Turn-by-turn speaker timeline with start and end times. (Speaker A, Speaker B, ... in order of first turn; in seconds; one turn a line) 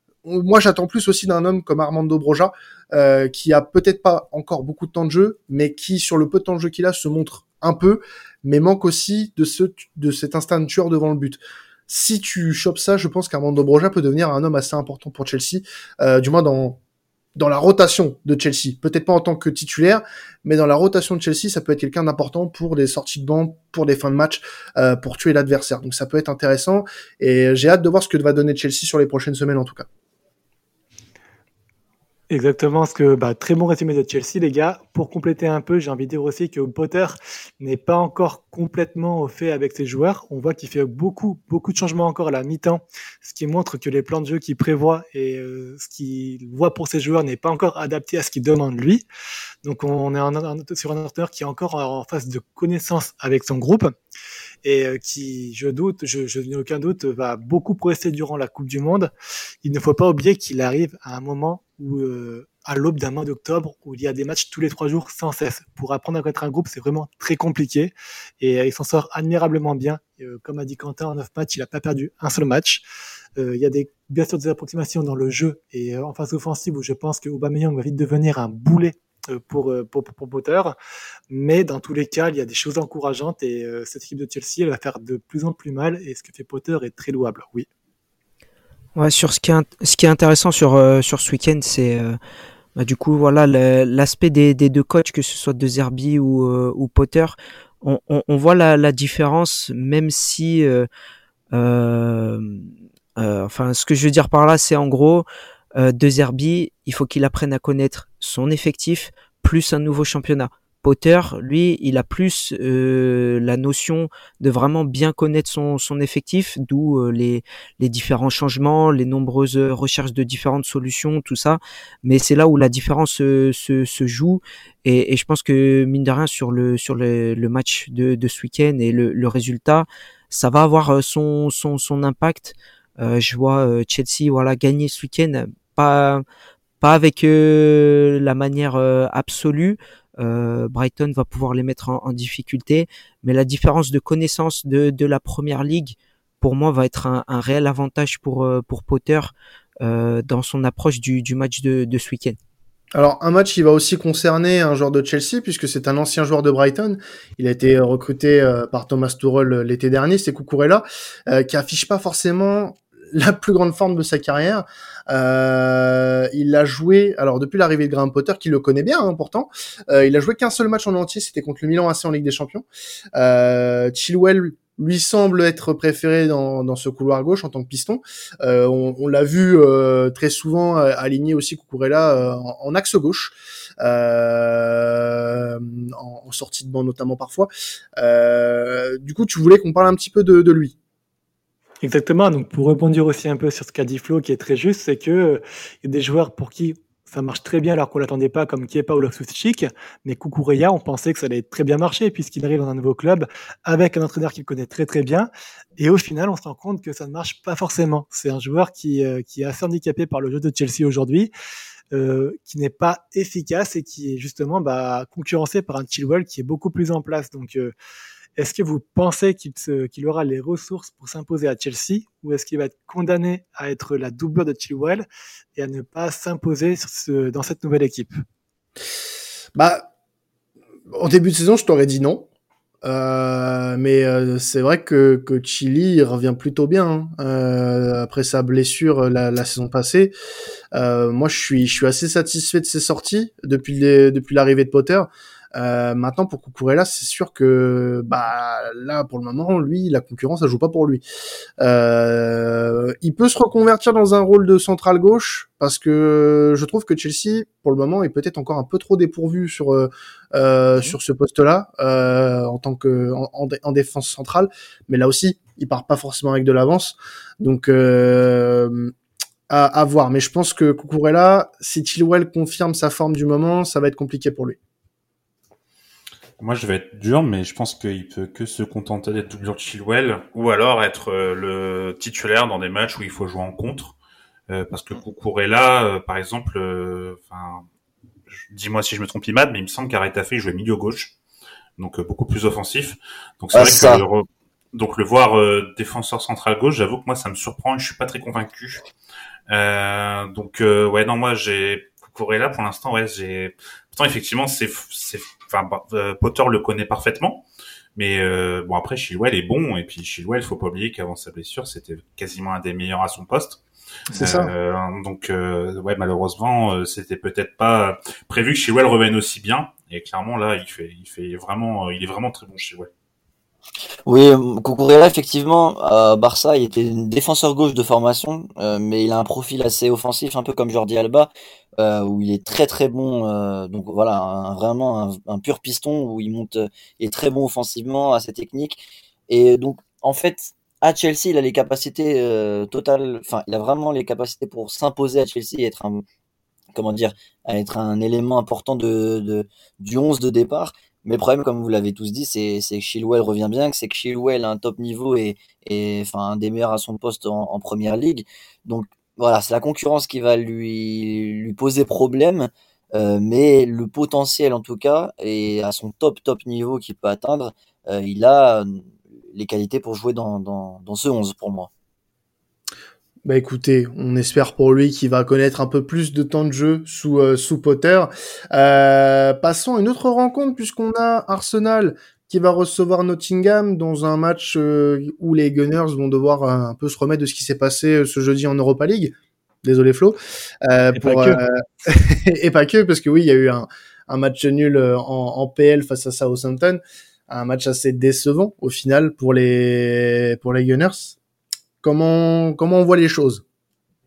Speaker A: 0.2-16.8
Speaker A: 17.4-29.9
Speaker B: 32.3-49.0
Speaker B: 49.6-53.9
Speaker B: 54.6-59.1
Speaker B: 59.6-72.8
Speaker B: 73.4-80.7
Speaker B: 81.3-87.7
Speaker C: 88.9-92.2
Speaker C: 92.8-100.9
Speaker C: 101.5-136.2
Speaker C: 136.8-152.4
Speaker A: 152.9-190.7
Speaker B: 191.8-211.3
Speaker B: 211.9-217.7
Speaker B: 218.4-228.1
Speaker A: 229.5-229.9
Speaker A: 230.9-232.3
Speaker A: 232.8-240.1
Speaker A: 240.7-251.0
Speaker A: 251.6-268.9
Speaker A: 269.5-274.6
Speaker D: 276.4-283.9
Speaker D: 284.5-287.6
Speaker D: 288.3-291.1
Speaker D: 291.8-298.8
Speaker E: 293.5-294.0
Speaker D: 299.5-313.6
Speaker A: 314.1-314.5
Speaker D: 314.1-322.9
Speaker E: 324.1-346.0
Speaker E: 346.7-371.7
Speaker A: 373.2-401.2
Speaker B: 390.9-391.4
Speaker A: 401.8-403.4